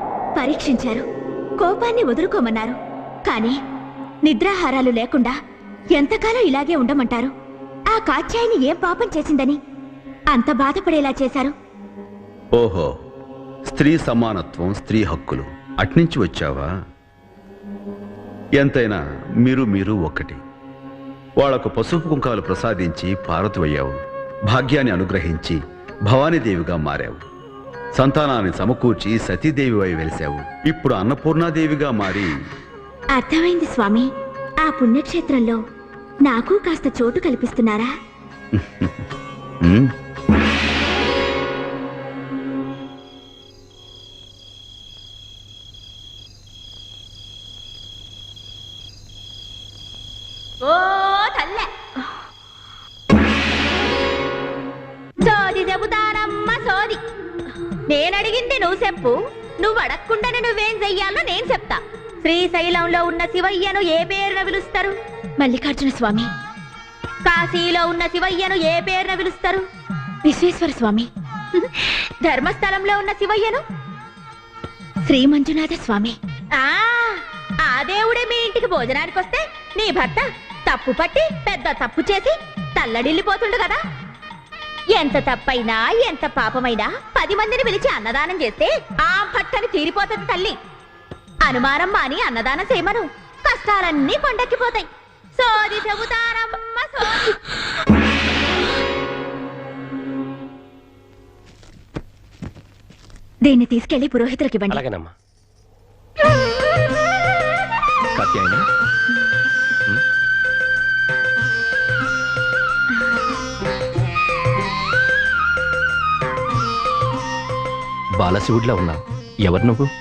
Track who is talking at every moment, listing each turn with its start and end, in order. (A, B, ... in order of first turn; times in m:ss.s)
0:00.4-0:01.0 A
0:01.6-0:02.8 A
0:03.3-0:03.6 A
0:04.2-0:05.4 A
0:06.0-0:07.3 A
0:07.9-0:09.6 A
0:10.3-0:11.6 A
0:12.6-0:12.9 B
0:13.7-0:16.7 B
0:18.6-0:20.4 B
0:21.4-0:24.0 B
0:24.5-0:27.2 B
0:28.0-0:32.3 B
0:33.1-0:34.1 A
0:34.6-0:35.6 A
0:36.2-0:37.9 A
0:38.6-0:38.9 B
0:50.6-0:51.7 A
0:55.2-0:57.0 A
0:57.9-1:06.3 A
1:07.3-1:09.6 A
1:10.2-1:13.6 A
1:15.1-1:23.8 A
1:25.0-1:30.6 A
1:31.4-1:37.4 A
1:43.4-1:44.8 A
1:44.7-1:45.1 C
1:48.2-1:48.6 C
1:58.2-1:59.9 C